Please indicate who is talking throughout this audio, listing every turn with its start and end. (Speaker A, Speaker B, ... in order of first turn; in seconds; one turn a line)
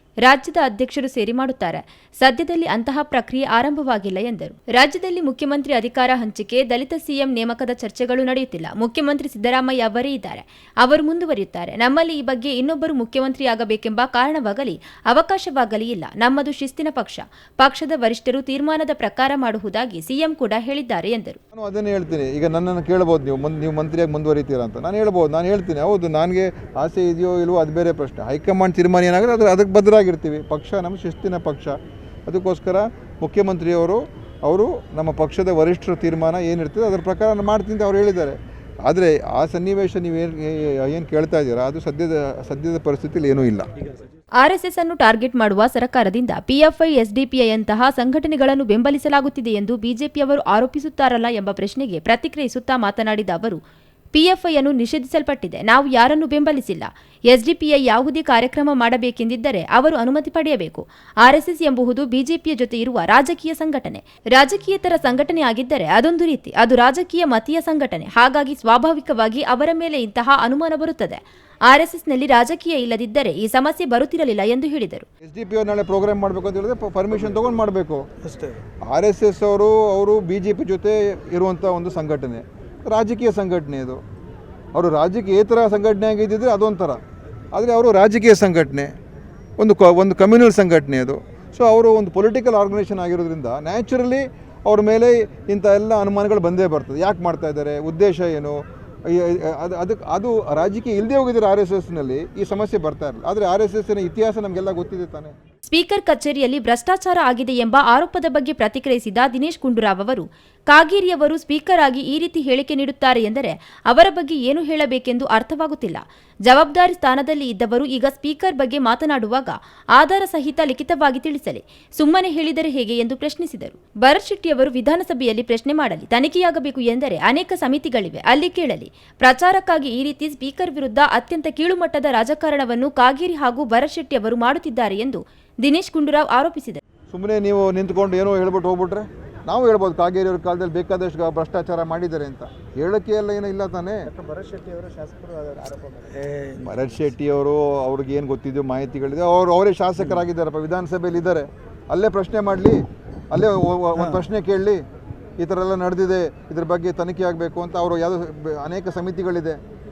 Speaker A: 0.3-21.4
Speaker B: 21.5-43.7
Speaker A: 44.4-53.6
Speaker A: 54.1-75.0
Speaker B: 75.2-78.1
Speaker C: 78.2-78.6
Speaker B: 78.9-84.0
Speaker B: 84.7-87.0
Speaker B: 87.5-88.9
Speaker B: 89.6-105.3
Speaker A: 105.7-136.8
Speaker B: 137.1-144.1
Speaker C: 144.1-146.7
Speaker B: 146.6-154.8
Speaker B: 155.4-159.6